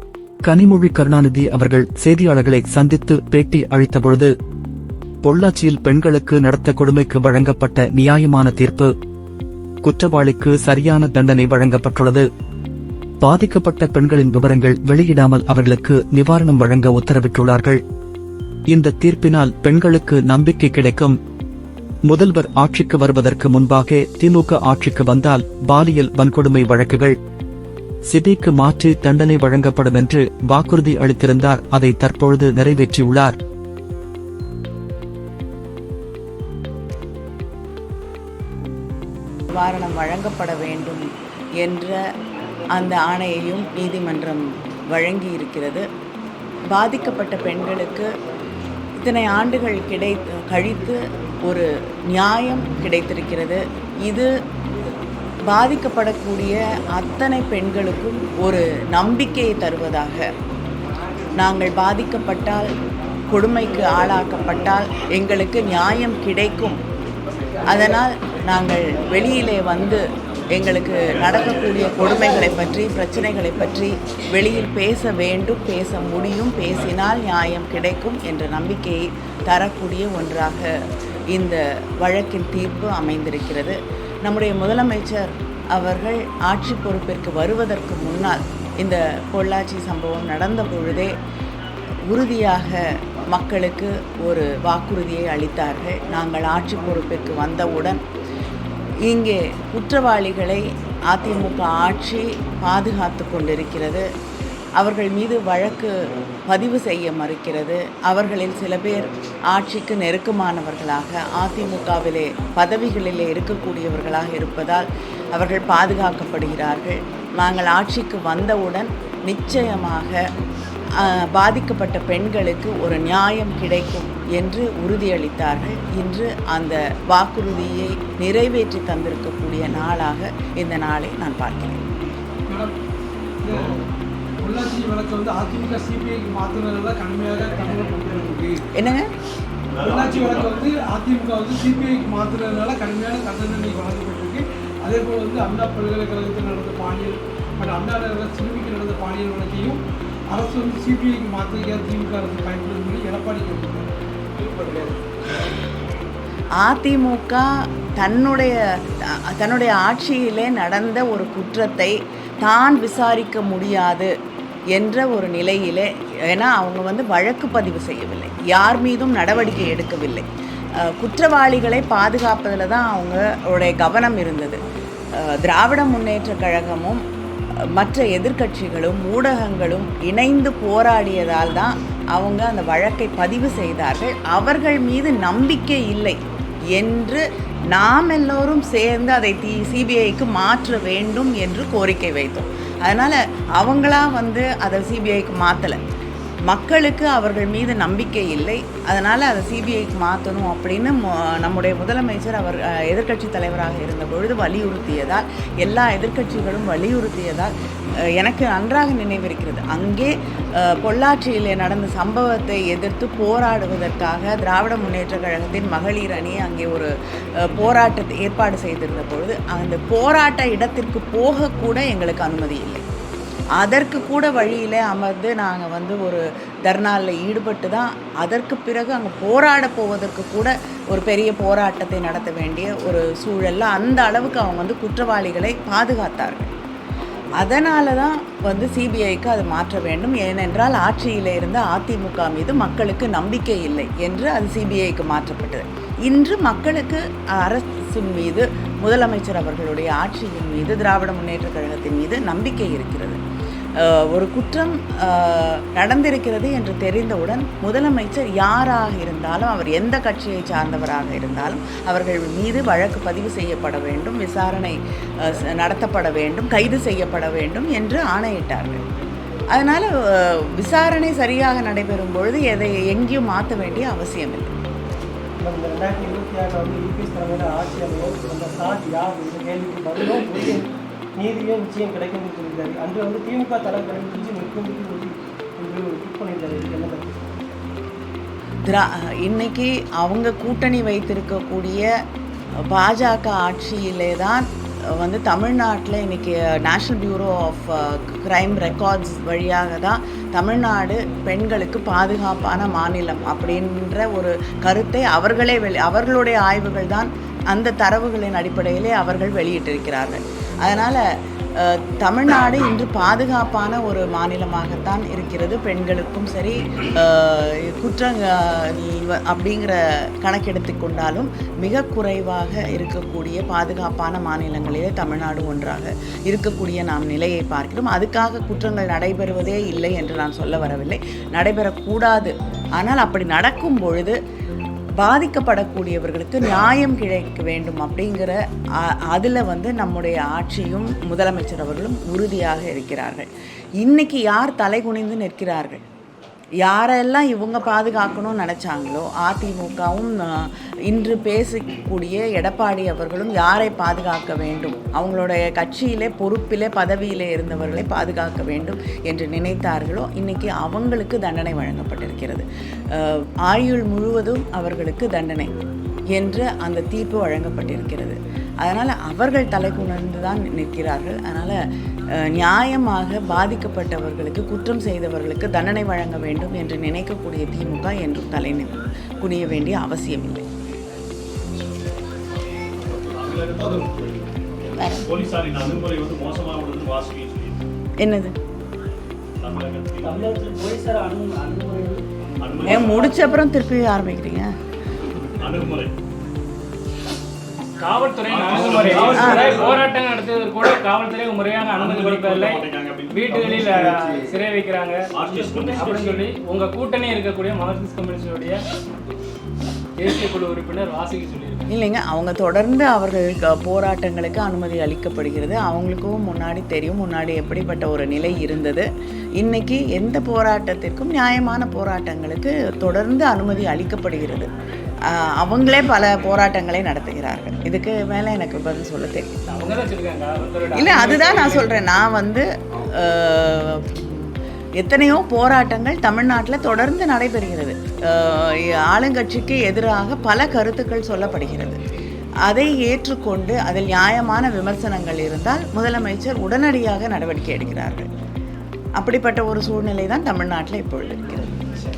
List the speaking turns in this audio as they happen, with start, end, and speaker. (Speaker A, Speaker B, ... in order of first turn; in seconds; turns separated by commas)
Speaker A: 0.4-4.3, Speaker A: 5.2-8.9, Speaker A: 9.8-12.2, Speaker A: 13.2-17.8, Speaker A: 18.7-21.1, Speaker A: 22.1-27.2, Speaker A: 28.1-33.4, Speaker B: 39.5-41.0, Speaker B: 41.6-42.0, Speaker B: 42.7-45.8, Speaker B: 46.7-48.0, Speaker B: 49.0-54.3, Speaker B: 55.5-60.2, Speaker B: 61.4-62.6, Speaker B: 63.3-66.8, Speaker B: 67.7-70.0, Speaker B: 70.5-80.7, Speaker B: 81.3-91.1, Speaker B: 92.1-92.8, Speaker B: 93.3-98.0, Speaker B: 99.1-104.0, Speaker B: 104.8-105.9, Speaker B: 106.5-114.8, Speaker B: 115.3-120.2, Speaker B: 121.0-131.8, Speaker C: 133.4-133.8, Speaker C: 134.4-138.6, Speaker B: 138.8-139.1, Speaker C: 139.8-149.8, Speaker D: 139.8-140.3, Speaker C: 150.3-153.8, Speaker C: 154.4-155.0, Speaker B: 156.6-157.4, Speaker B: 158.0-158.5, Speaker B: 159.3-164.1, Speaker B: 164.7-170.2, Speaker B: 170.9-174.6, Speaker B: 175.4-177.0, Speaker B: 177.8-186.2, Speaker B: 186.7-187.2, Speaker B: 187.7-195.8, Speaker B: 196.5-207.5, Speaker B: 208.2-210.1, Speaker B: 210.7-216.9, Speaker B: 217.5-222.8, Speaker B: 223.6-236.5, Speaker B: 237.4-253.2, Speaker B: 253.8-264.7, Speaker B: 265.3-268.8, Speaker B: 269.5-274.5, Speaker E: 275.4-287.4, Speaker B: 288.7-291.9, Speaker B: 292.7-294.4, Speaker B: 295.0-311.0, Speaker B: 311.6-334.1, Speaker B: 335.0-338.3, Speaker B: 339.1-343.2, Speaker B: 343.8-345.8, Speaker B: 346.6-362.4, Speaker B: 362.9-365.5, Speaker B: 366.1-371.6, Speaker B: 372.3-380.4, Speaker D: 383.0-384.2, Speaker B: 384.8-385.1, Speaker D: 385.0-387.6, Speaker B: 388.0-388.3, Speaker D: 389.4-390.3, Speaker E: 390.0-392.0, Speaker D: 392.4-393.0, Speaker E: 392.6-392.9, Speaker B: 392.6-394.5, Speaker D: 395.4-395.9, Speaker F: 397.8-408.6, Speaker D: 398.3-399.9, Speaker B: 399.1-399.4, Speaker D: 401.7-403.8, Speaker D: 405.1-406.2, Speaker F: 410.0-411.6, Speaker B: 411.7-418.9, Speaker B: 419.4-424.5, Speaker B: 425.1-429.3, Speaker F: 429.5-431.7, Speaker B: 430.8-432.4, Speaker B: 433.0-434.2, Speaker B: 434.8-441.8, Speaker B: 442.5-448.1, Speaker B: 449.0-451.5